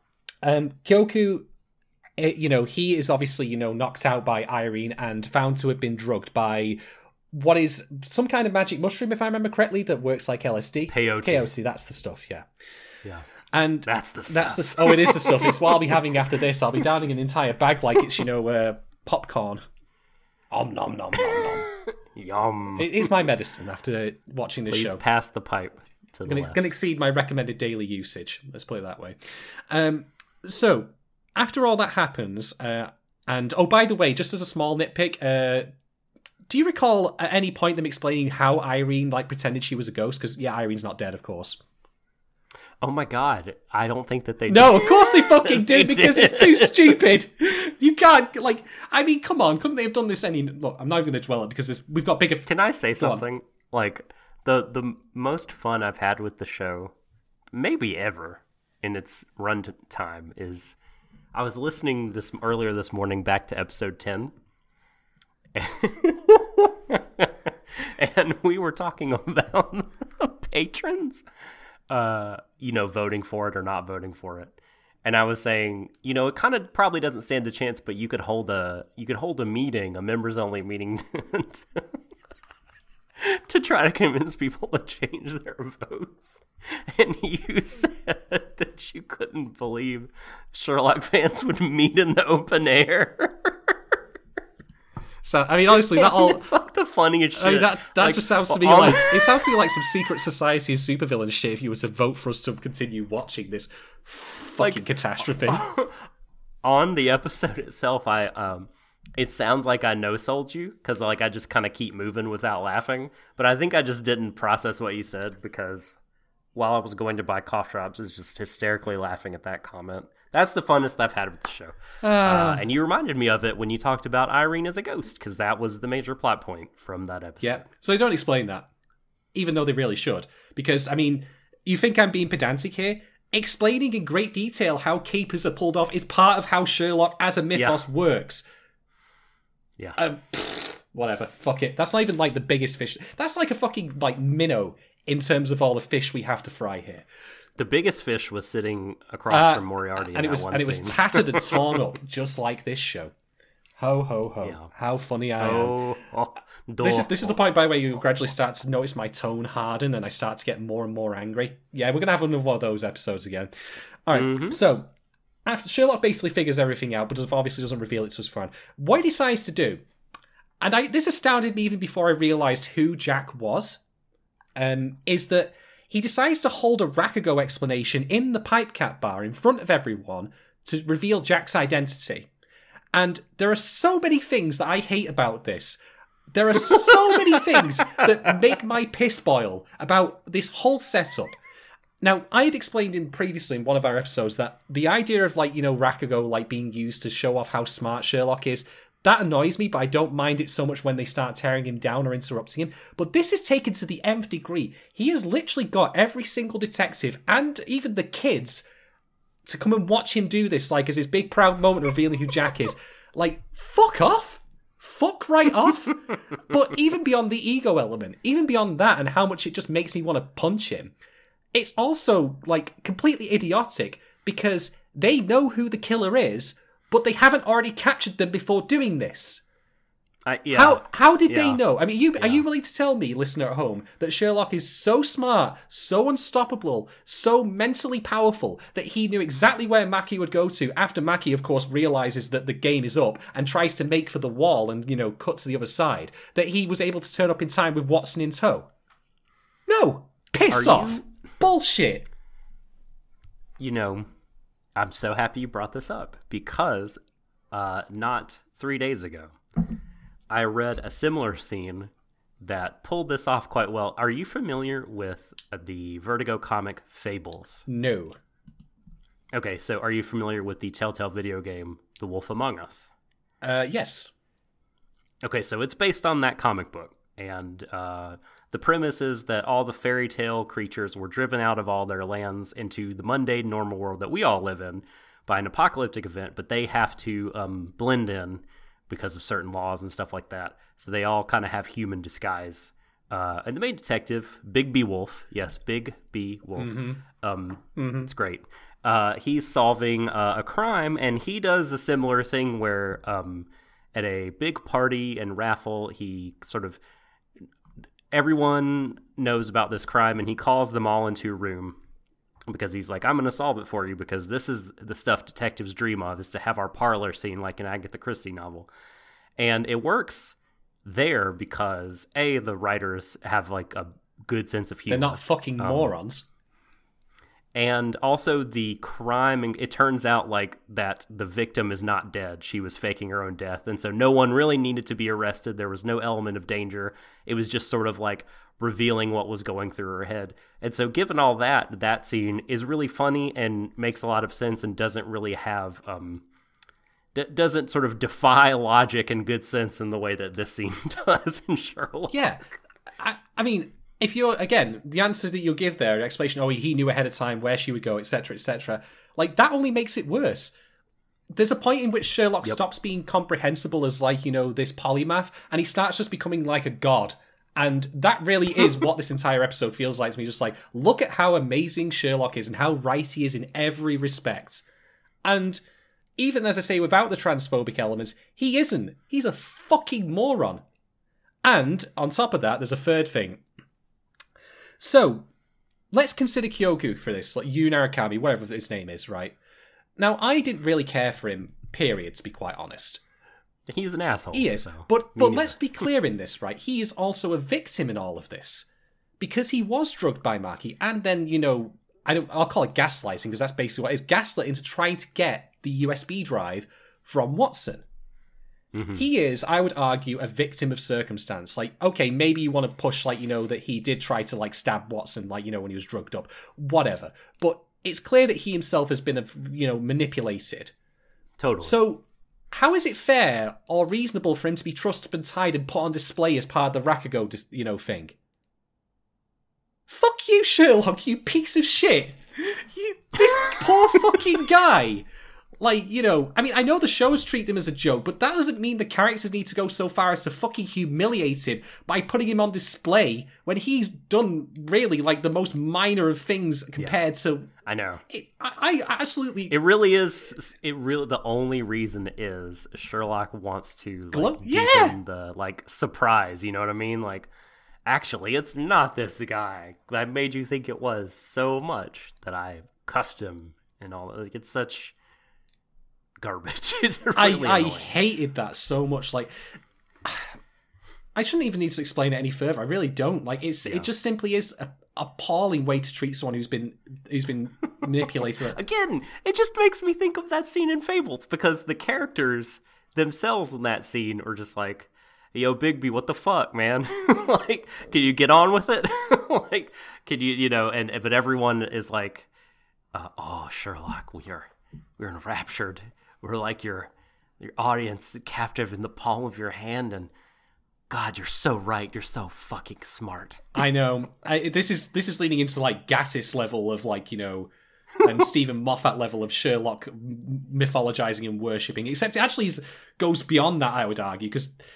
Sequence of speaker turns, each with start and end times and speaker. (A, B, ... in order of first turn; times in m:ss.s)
0:00.4-0:01.5 A
0:02.2-0:06.8 A
0:07.3-0:12.5 A
0:10.9-0:11.5 B
0:13.5-0:19.6 A
0:13.8-0:15.7 B
0:20.5-0:21.7 A
0:21.3-0:23.1 B
0:22.8-0:25.0 A
0:24.7-0:26.6 B
0:26.2-0:29.2 A
0:29.7-0:35.7 A
0:36.5-0:41.6 A
0:42.8-0:47.0 B
0:44.5-0:53.2 A
0:52.4-0:56.9 B
0:57.5-1:00.8 B
1:01.3-1:04.3 B
1:05.5-1:11.2 B
1:11.9-1:21.8 B
1:23.2-1:33.8 B
1:35.2-1:36.5 A
1:35.7-1:39.5 B
1:37.4-1:45.6 A
1:44.6-1:44.8 B
1:45.4-1:46.0 B
1:46.6-1:56.0 B
1:56.5-2:07.6 B
2:02.0-2:02.6 A
2:07.4-2:08.7 A
2:09.3-2:18.4 A
2:17.5-2:17.8 B
2:20.0-2:27.0 A
2:27.6-2:31.8 B
2:29.3-2:33.1 A
2:33.8-2:35.8 A
2:34.4-2:34.7 B
2:35.4-2:37.3 B
2:36.8-2:43.5 A
2:44.0-2:44.9 A
2:44.1-2:44.6 B
2:45.4-2:49.8 A
2:50.6-2:53.8 A
2:54.6-3:02.3 A
3:02.9-3:05.8 A
3:06.3-3:11.3 A
3:12.0-3:28.6 A
3:29.4-3:40.9 A
3:41.5-3:49.4 A
3:50.2-3:51.6 B
3:50.5-4:08.7 A
4:09.7-4:12.1 A
4:10.5-4:11.0 B
4:13.6-4:14.1 B
4:14.8-4:17.0 B
4:17.5-4:19.4 B
4:20.3-4:27.7 B
4:27.7-4:28.2 A
4:29.3-4:32.9 B
4:33.4-4:34.1 A
4:35.2-5:06.8 B
4:56.6-4:57.0 A
4:57.8-4:58.1 A
5:08.1-5:11.8 B
5:12.5-5:18.7 B
5:19.4-5:25.9 B
5:24.9-5:26.3 A
5:27.5-5:46.2 B
5:47.1-5:52.2 B
5:52.1-5:52.4 A
5:53.0-6:00.5 A
6:01.3-6:14.7 A
6:15.2-6:15.6 A
6:16.2-6:20.6 A
6:21.4-6:23.4 A
6:24.8-6:25.3 A
6:25.9-6:29.4 A
6:30.0-6:33.0 A
6:33.7-6:35.6 B
6:34.3-6:38.7 A
6:39.2-6:47.8 A
6:48.7-6:49.0 B
6:48.9-7:00.7 A
7:01.4-7:01.8 B
7:01.6-7:08.2 A
7:09.9-7:15.0 A
7:15.6-7:27.5 A
7:27.6-7:28.0 B
7:28.1-7:29.6 A
7:29.5-7:37.3 B
7:34.1-7:35.0 A
7:37.8-7:44.9 B
7:46.2-7:47.9 B
7:47.2-7:49.3 A
7:50.0-7:50.3 A
7:51.1-7:58.6 A
7:58.4-8:12.3 B
8:12.9-8:20.1 B
8:20.9-8:23.4 B
8:23.5-8:34.5 A